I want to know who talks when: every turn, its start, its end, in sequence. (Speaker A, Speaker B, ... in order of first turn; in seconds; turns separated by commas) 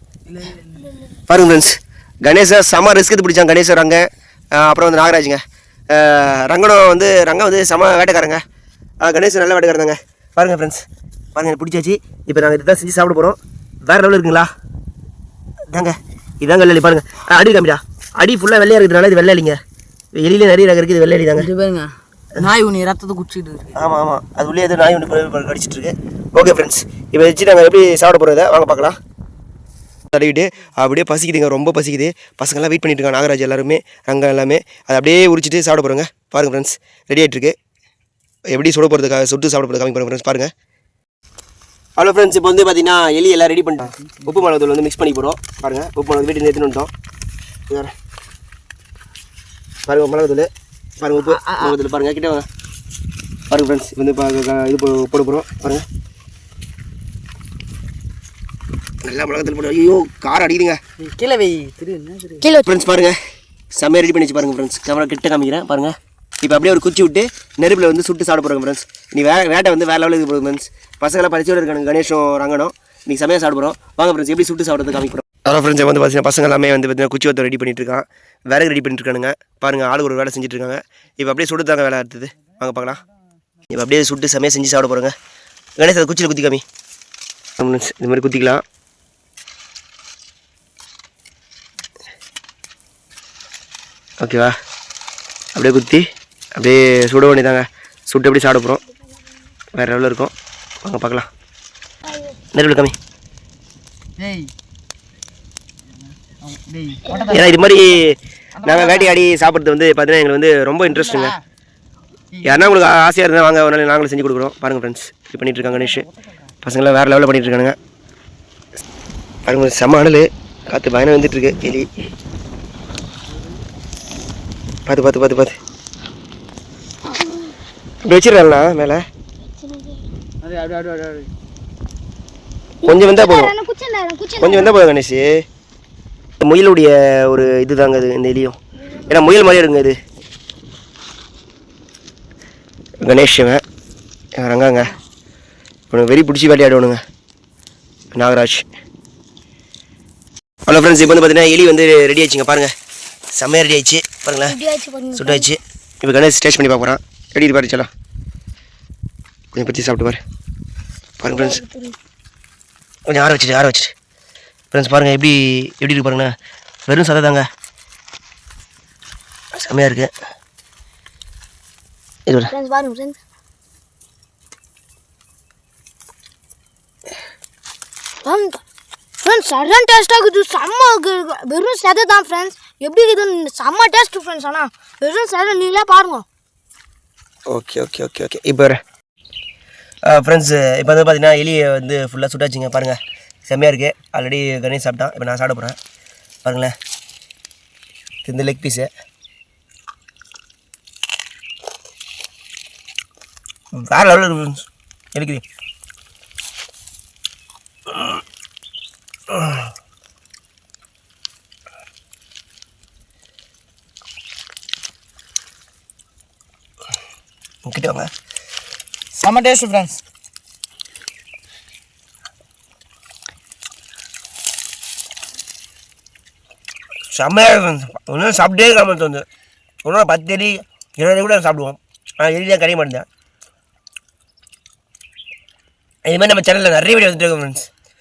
Speaker A: 0.3-0.9, Speaker B: 1.3-8.4, Speaker B: 9.0-10.8, Speaker B: 11.3-14.5, Speaker B: 15.7-19.6, Speaker B: 20.1-21.5, Speaker A: 21.4-23.8, Speaker B: 23.7-29.0, Speaker B: 30.1-37.6, Speaker B: 38.5-40.5, Speaker B: 42.0-46.9, Speaker A: 44.0-44.4, Speaker B: 49.9-52.5, Speaker A: 51.2-51.8, Speaker B: 53.5-55.9, Speaker B: 59.0-60.8, Speaker A: 61.0-62.5, Speaker C: 62.4-62.7, Speaker B: 62.6-63.2, Speaker B: 63.8-83.0, Speaker B: 83.7-85.1, Speaker B: 85.8-86.6, Speaker B: 87.6-88.6, Speaker B: 94.2-94.6, Speaker B: 95.5-98.8, Speaker B: 99.8-101.3, Speaker C: 102.0-102.4, Speaker B: 102.5-103.0, Speaker A: 104.2-104.5, Speaker A: 106.0-107.7, Speaker C: 107.1-107.5, Speaker B: 107.3-111.4, Speaker A: 108.6-109.2, Speaker A: 110.9-111.4, Speaker A: 112.3-112.7, Speaker B: 112.4-116.1, Speaker A: 115.6-116.5, Speaker B: 116.6-117.8, Speaker B: 119.5-121.9, Speaker B: 124.9-125.6, Speaker C: 127.1-127.5, Speaker B: 128.0-129.0, Speaker C: 129.5-130.1, Speaker A: 130.4-131.3, Speaker C: 132.8-134.8, Speaker B: 132.8-133.5, Speaker B: 134.4-135.4, Speaker B: 136.4-140.0, Speaker B: 143.0-143.6, Speaker B: 144.4-144.9, Speaker B: 145.9-147.0, Speaker B: 148.1-148.7, Speaker B: 150.7-152.7, Speaker B: 153.3-154.6, Speaker C: 154.5-155.5, Speaker B: 155.2-157.9, Speaker B: 159.5-160.2, Speaker B: 161.2-161.6, Speaker C: 161.3-162.0, Speaker B: 163.1-163.9, Speaker B: 164.7-166.3, Speaker B: 166.9-167.5, Speaker B: 169.6-170.1, Speaker C: 172.5-173.2, Speaker C: 178.2-178.6, Speaker C: 179.2-186.2, Speaker B: 187.5-188.8, Speaker B: 190.1-195.8, Speaker B: 196.4-196.7, Speaker B: 198.2-198.9, Speaker B: 203.7-205.4, Speaker B: 217.7-218.1, Speaker A: 219.2-220.0, Speaker B: 227.1-229.3, Speaker B: 229.8-233.1, Speaker B: 236.1-237.7